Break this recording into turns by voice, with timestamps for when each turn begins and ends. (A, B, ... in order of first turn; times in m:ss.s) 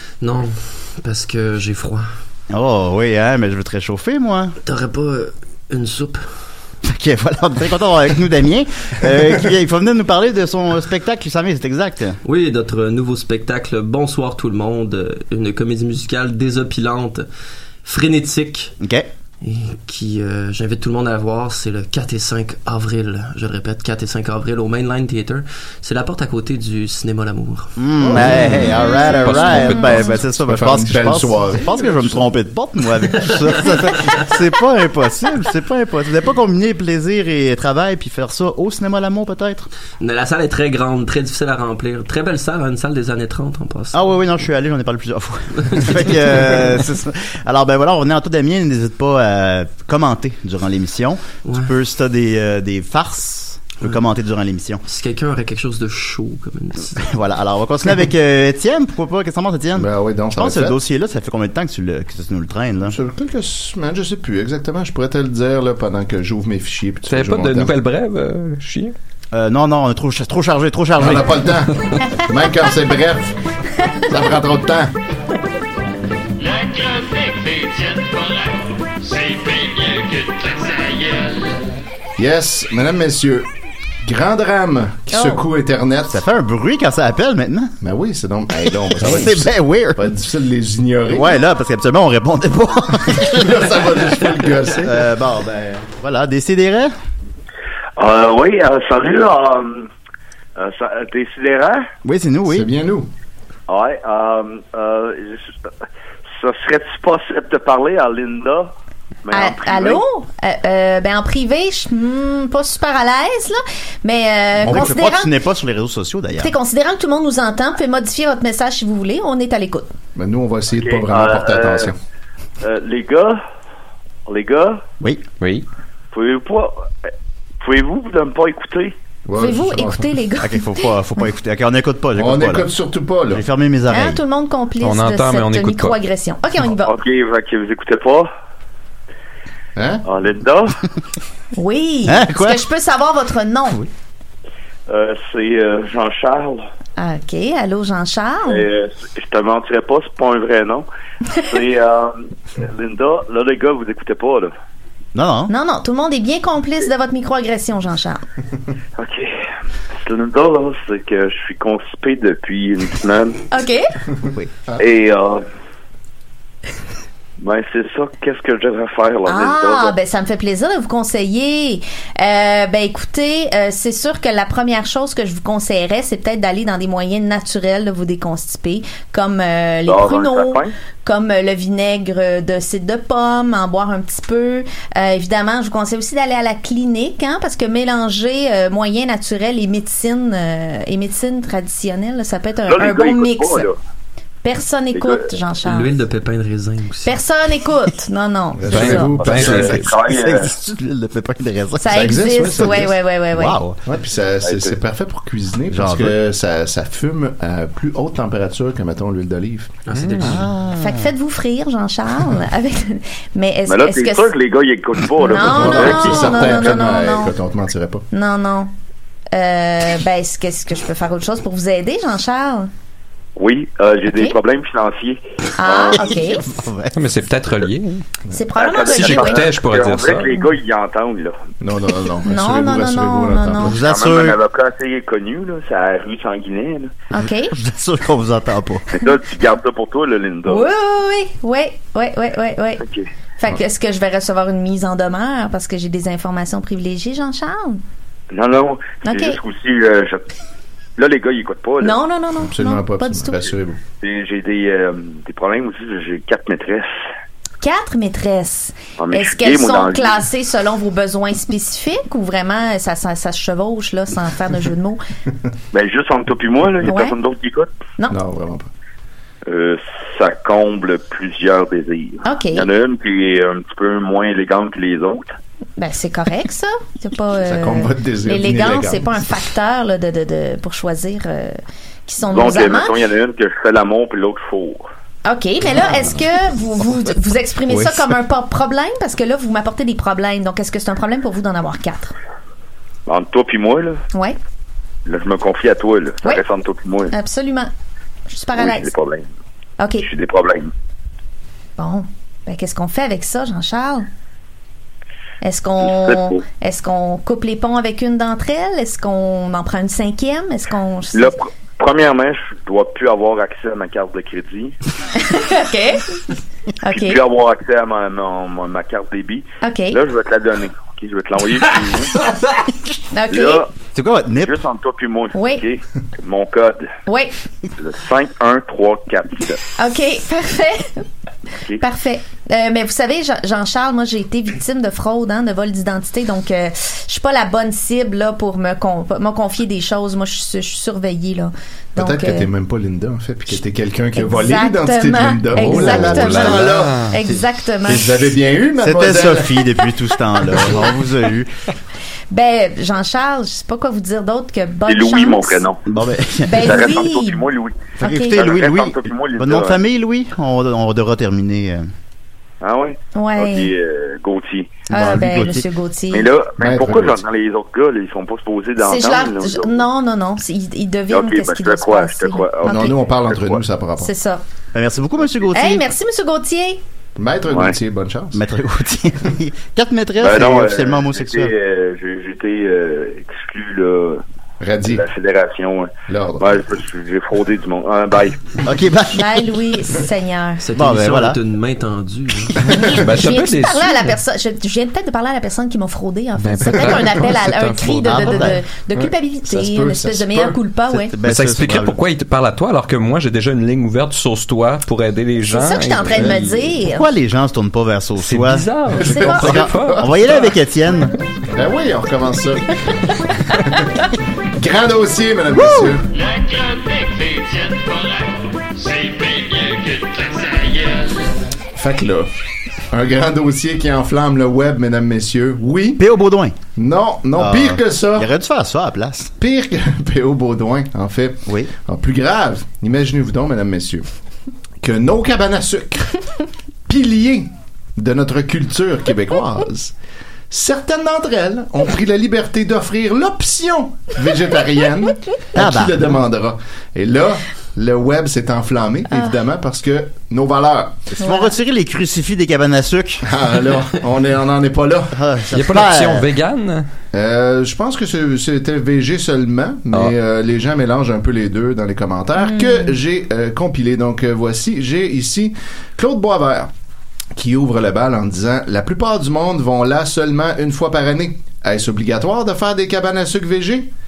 0:00.2-0:02.1 A
0:02.5-0:04.6 B
0:04.6-0:06.2 A
0:06.8-0:12.2 B
0:12.2-0:17.2 A
0:17.8-0:18.7 A
0:18.8-0:19.1 B
0:19.4-0:27.8 A
0:27.8-0:39.7 B
0:28.0-0:29.1 C
0:28.6-0:30.1 D
0:29.2-0:30.0 E
0:29.6-0:32.3 C
0:40.0-0:44.0 A
0:43.9-0:54.8 B
0:45.6-0:46.7 A
0:54.9-0:57.1 A
0:57.0-1:03.0 B
0:59.8-1:00.8 C
1:02.8-1:07.8 C
1:07.1-1:08.9 E
1:09.3-1:11.5 B
1:11.0-1:13.3 C
1:14.1-1:14.9 C
1:16.5-1:18.4 F
1:19.0-1:21.3 F
1:22.2-1:23.4 C
1:24.0-1:26.2 C
1:25.1-1:25.4 D
1:26.1-1:27.7 B
1:27.8-1:31.4 C
1:29.0-1:30.1 B
1:31.1-1:33.6 B
1:33.1-1:35.0 C
1:34.8-1:36.9 B
1:38.0-1:39.9 G
1:40.6-1:41.9 G
1:42.0-1:42.7 B
1:42.5-1:43.1 C
1:43.7-1:45.7 G
1:46.4-1:48.7 G
1:49.2-1:50.0 G
1:49.3-1:55.3 D
1:54.6-1:56.5 B
1:56.3-1:59.9 D
2:00.1-2:01.9 C
2:00.7-2:01.9 G
2:02.6-2:03.4 G
2:04.2-2:04.8 G
2:05.4-2:05.6 E
2:06.1-2:07.1 G
2:07.6-2:08.9 G
2:09.2-2:10.1 C
2:09.3-2:10.9 D
2:10.4-2:12.7 B
2:12.2-2:13.4 C
2:13.3-2:14.2 B
2:13.9-2:16.9 D
2:14.8-2:16.0 E
2:16.8-2:18.3 G
2:19.8-2:20.0 C
2:20.0-2:20.8 G
2:21.6-2:23.8 D
2:22.1-2:22.6 B
2:24.9-2:26.6 G
2:27.0-2:28.6 D
2:28.4-2:34.5 G
2:35.1-2:35.5 B
2:35.5-2:38.2 D
2:39.0-2:39.4 G
2:40.0-2:43.4 G
2:43.5-2:43.8 D
2:44.8-2:45.4 G
2:47.4-2:49.9 G
2:49.2-3:13.7 D
2:59.9-3:00.7 G
3:12.7-3:13.7 G
3:14.4-3:15.9 D
3:14.9-3:15.3 G
3:15.6-3:17.2 A
3:17.0-3:19.2 D
3:18.6-3:19.8 C
3:18.7-3:19.9 E
3:19.2-3:20.5 G
3:19.3-3:23.8 B
3:21.8-3:23.6 D
3:21.9-3:23.0 C
3:23.8-3:29.7 C
3:24.4-3:24.8 G
3:25.7-3:26.2 B
3:29.8-3:30.4 A
3:29.9-3:30.4 E
3:30.2-3:31.0 B
3:30.7-3:34.3 D
3:33.7-3:36.8 G
3:35.2-3:37.3 D
3:35.3-3:38.0 C
3:38.1-3:38.7 D
3:39.3-3:42.7 D
3:43.4-3:46.1 G
3:44.1-3:44.4 D
3:45.6-3:46.5 D
3:45.9-3:47.1 B
3:46.9-3:48.0 E
3:48.3-3:49.5 D
3:48.5-3:51.4 G
3:48.9-3:50.3 E
3:50.1-3:50.5 D
3:51.6-3:53.8 C
3:52.2-3:53.8 D
3:53.6-3:54.4 B
3:53.8-3:56.9 G
3:57.1-3:57.5 D
3:57.2-3:58.8 B
3:58.9-4:00.7 G
4:00.4-4:02.8 D
4:03.4-4:07.8 D
4:08.3-4:10.2 G
4:09.0-4:09.4 D
4:11.0-4:12.0 G
4:11.8-4:13.5 D
4:12.4-4:13.8 C
4:14.0-4:16.9 G
4:17.6-4:25.0 D
4:19.0-4:20.2 G
4:25.7-4:27.7 G
4:26.8-4:27.2 D
4:28.1-4:28.7 C
4:29.5-4:35.3 G
4:32.2-4:32.7 D
4:35.8-4:43.0 D
4:37.4-4:39.2 C
4:42.3-4:44.9 G
4:45.2-4:52.1 D
4:53.1-4:54.0 G
4:55.0-4:57.1 G
4:57.1-4:57.7 D
4:58.3-4:58.9 D
4:58.5-4:59.2 G
4:59.8-5:00.1 D
5:00.0-5:00.7 G
5:01.8-5:04.1 D
5:05.4-5:11.4 D
5:05.8-5:06.4 G
5:11.1-5:14.7 G
5:15.2-5:16.1 D
5:16.8-5:17.2 D
5:16.9-5:22.2 G
5:19.6-5:20.0 D
5:23.1-5:23.6 D
5:23.3-5:23.7 G
5:23.9-5:24.6 B
5:24.4-5:26.9 G
5:25.3-5:25.6 D
5:27.1-5:27.3 D
5:27.8-5:29.6 G
5:29.8-5:31.0 D
5:31.8-5:42.5 D
5:42.0-5:47.1 C
5:44.2-5:48.2 D
5:46.0-5:47.2 E
5:47.8-5:49.6 C
5:48.8-5:51.5 B
5:52.3-5:55.7 D
5:54.8-5:55.8 G
5:55.9-5:56.8 B
5:56.4-5:57.4 D
5:56.6-5:59.8 G
5:58.0-6:01.9 B
5:58.0-5:58.5 D
6:02.6-6:04.8 G
6:03.1-6:03.7 D
6:04.9-6:05.6 B
6:04.9-6:06.3 D
6:06.1-6:09.8 G
6:06.6-6:07.2 C
6:08.8-6:12.9 D
6:11.1-6:13.6 G
6:12.6-6:14.1 C
6:14.0-6:14.4 D
6:14.7-6:15.9 B
6:15.5-6:16.8 D
6:17.2-6:18.4 C
6:17.5-6:17.8 G
6:18.3-6:21.5 B
6:20.2-6:24.2 G
6:24.6-6:25.0 C
6:24.8-6:28.6 G
6:26.1-6:26.5 C
6:28.6-6:29.5 B
6:29.1-6:30.6 D
6:30.6-6:32.6 A
6:30.7-6:31.4 B
6:32.7-6:41.2 D
6:33.0-6:34.1 E
6:36.4-6:38.4 E
6:38.0-6:38.6 B
6:38.9-6:40.6 C
6:40.9-6:42.0 B
6:41.2-6:46.6 E
6:45.4-6:47.1 D
6:46.8-6:48.7 B
6:48.2-6:50.2 E
6:48.9-6:50.4 C
6:49.0-6:49.5 D
6:49.3-6:51.2 B
6:51.5-6:53.0 C
6:53.5-6:53.9 C
6:54.6-6:56.0 C
6:55.5-6:56.0 B
6:56.4-6:57.9 F
6:58.9-7:00.7 F
7:01.7-7:02.3 C
7:02.9-7:06.0 C
7:06.0-7:06.6 B
7:06.8-7:08.3 C
7:07.4-7:09.3 B
7:09.4-7:14.0 C
7:11.5-7:11.7 B
7:14.8-7:16.2 C
7:16.9-7:19.9 C
7:20.5-7:31.0 C
7:25.6-7:26.2 B
7:31.1-7:33.3 B
7:31.2-7:31.5 D
7:33.2-7:35.1 C
7:35.1-7:36.3 B
7:35.5-7:36.9 E
7:37.1-7:46.7 C
7:42.4-7:42.9 D
7:47.3-7:53.9 C